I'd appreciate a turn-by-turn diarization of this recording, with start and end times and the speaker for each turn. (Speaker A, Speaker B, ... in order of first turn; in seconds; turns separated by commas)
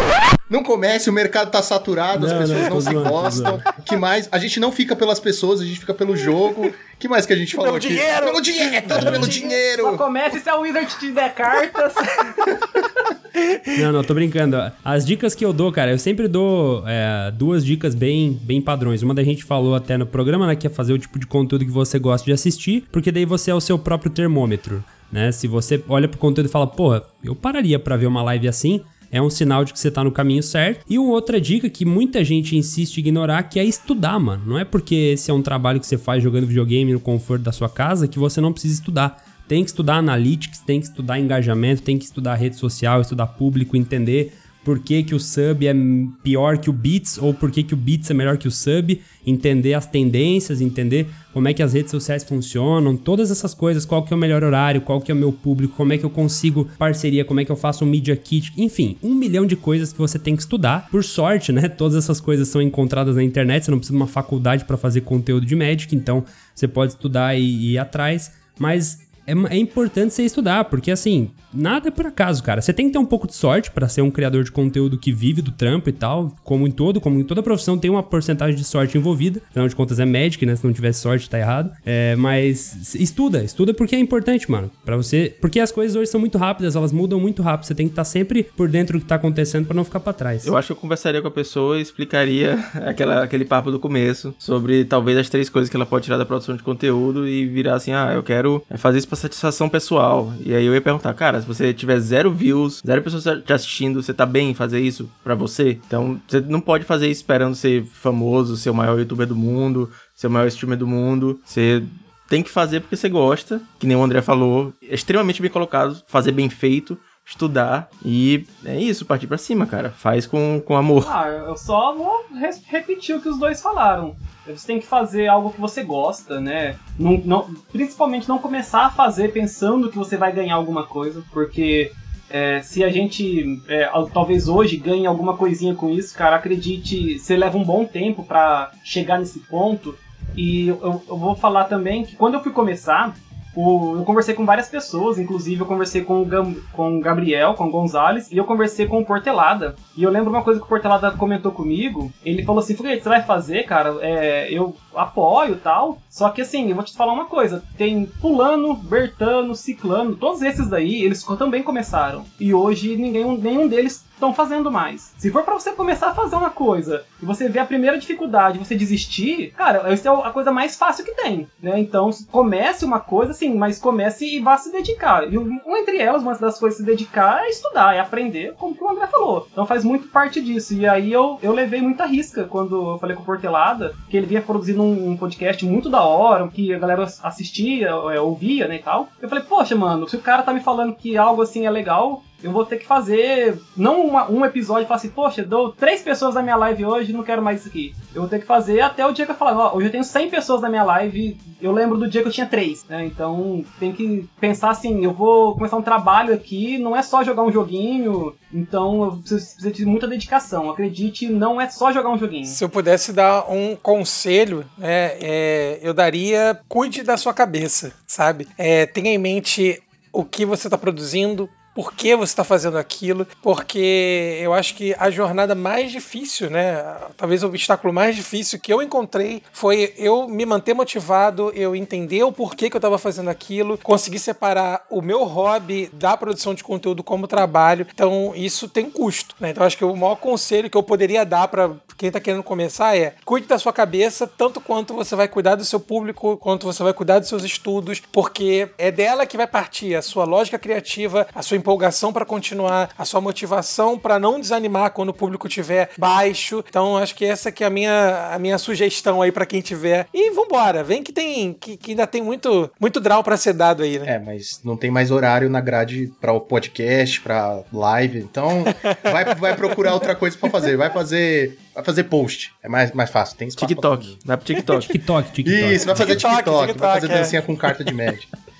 Speaker A: 0.5-10.0, Speaker B: 2.1-3.6, Speaker C: 7.6-9.5, Speaker D: 8.9-12.4, Speaker B: 13.8-90.5, Speaker E: 90.4-121.1, Speaker D: 121.0-212.6, Speaker C: 212.4-264.1, Speaker A: 264.0-274.2, Speaker E: 273.6-275.0, Speaker B: 274.8-276.2, Speaker A: 275.4-278.3, Speaker C: 275.8-277.7